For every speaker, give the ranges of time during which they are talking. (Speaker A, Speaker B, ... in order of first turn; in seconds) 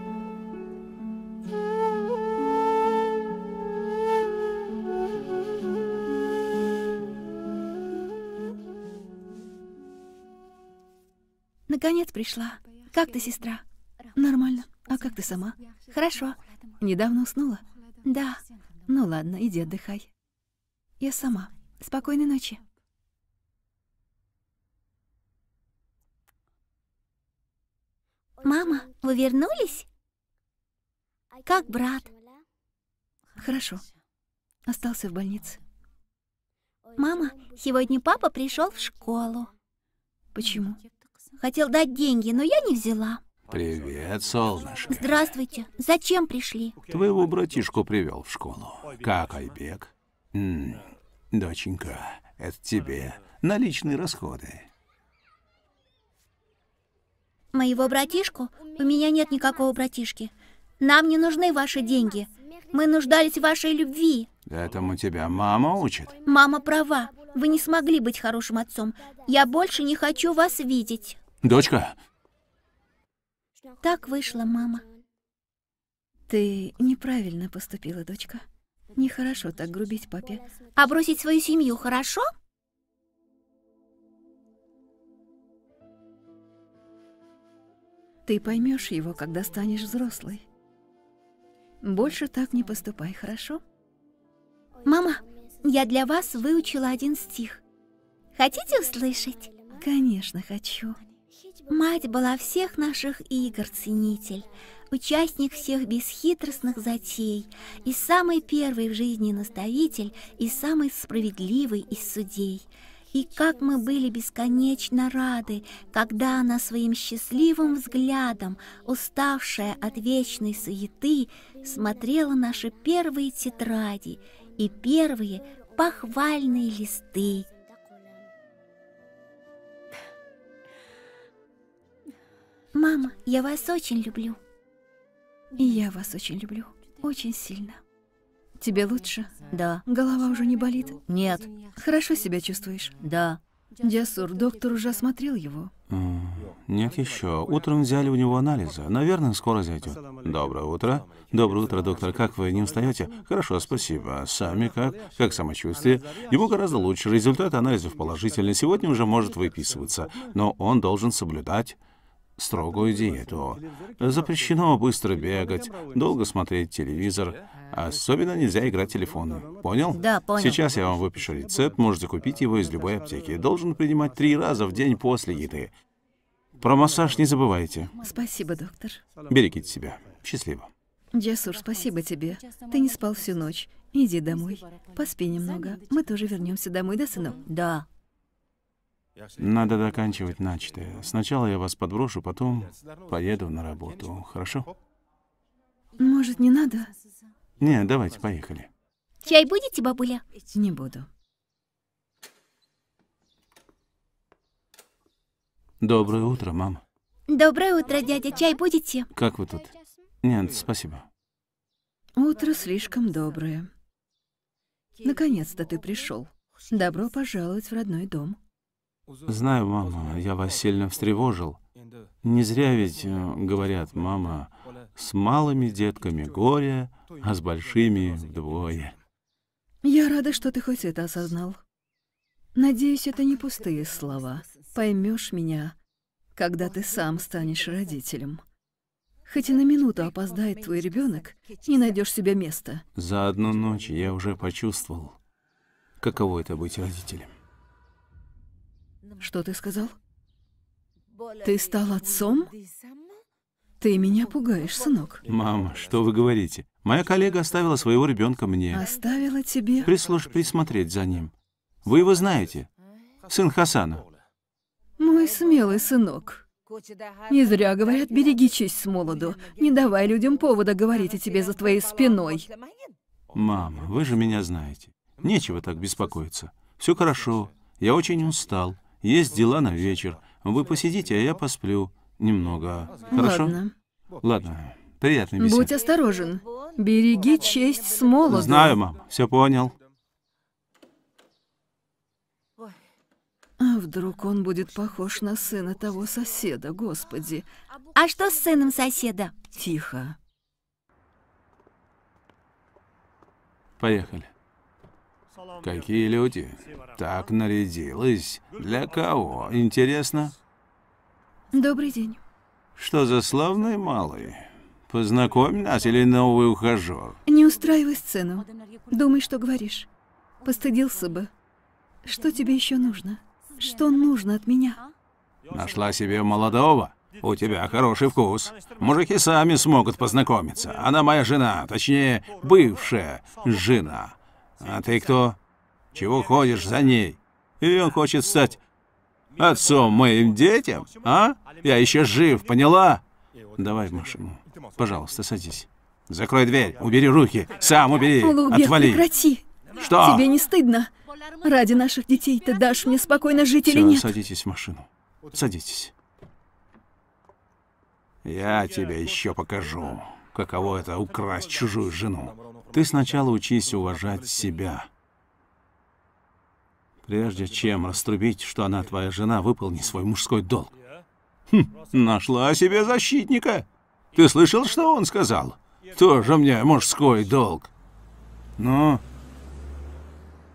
Speaker A: 11.7-13.6, 14.2-20.1, 21.0-22.6, 33.4-33.8, 34.7-35.6, 40.3-40.8, 76.3-78.4, 79.0-80.5, 88.3-90.4, 91.8-93.6, 94.9-97.6, 99.8-101.0, 101.7-103.9, 135.6-137.8, 138.6-139.3, 139.9-141.0, 141.8-143.0, 143.8-145.7, 178.0-179.0, 181.1-187.5, 196.0-196.9, 200.5-201.1, 212.2-213.7, 215.0-218.4, 229.8-231.6, 232.6-235.8, 236.4-238.4, 239.3-242.8, 249.2-250.0, 251.4-252.5, 253.8-255.2, 258.7-259.9, 265.0-266.4, 267.3-272.5, 283.1-283.7, 285.4-288.8, 293.6-297.5, 299.5-300.2, 311.5-312.2, 317.3-319.9, 320.4-321.3, 322.0-324.8, 348.2-350.9, 351.4-354.1
Speaker B: 28.4-29.9, 31.4-32.1, 37.0-39.5, 41.4-43.2, 44.9-46.8, 57.5-64.3, 66.3-71.2, 73.8-74.8, 80.8-82.2, 98.4-99.5, 101.7-127.5, 132.7-134.4, 139.5-139.8, 141.1-141.5, 143.0-143.4, 169.9-170.6, 187.5-187.9, 199.2-200.2, 207.3-209.1, 297.9-299.4
Speaker C: 43.5-45.4, 46.9-54.7, 64.5-66.2, 71.4-72.0, 145.9-161.8, 162.4-175.7, 176.6-177.9, 179.3-180.7, 189.4-194.7, 197.6-198.7, 205.8-206.8, 209.1-211.1, 219.3-221.6, 222.2-229.0, 242.9-245.2, 246.0-247.3, 255.2-258.9, 259.9-261.3, 261.8-262.7, 263.3-264.1, 273.3-283.6, 284.2-285.7, 288.3-289.8, 303.8-304.3, 305.6-310.4, 312.8-317.2, 325.5-335.4, 335.9-338.6, 339.4-343.0, 343.6-349.1, 349.8-350.3, 353.7-355.9, 358.2-364.9, 367.1-370.8, 371.5-377.7, 378.6-379.0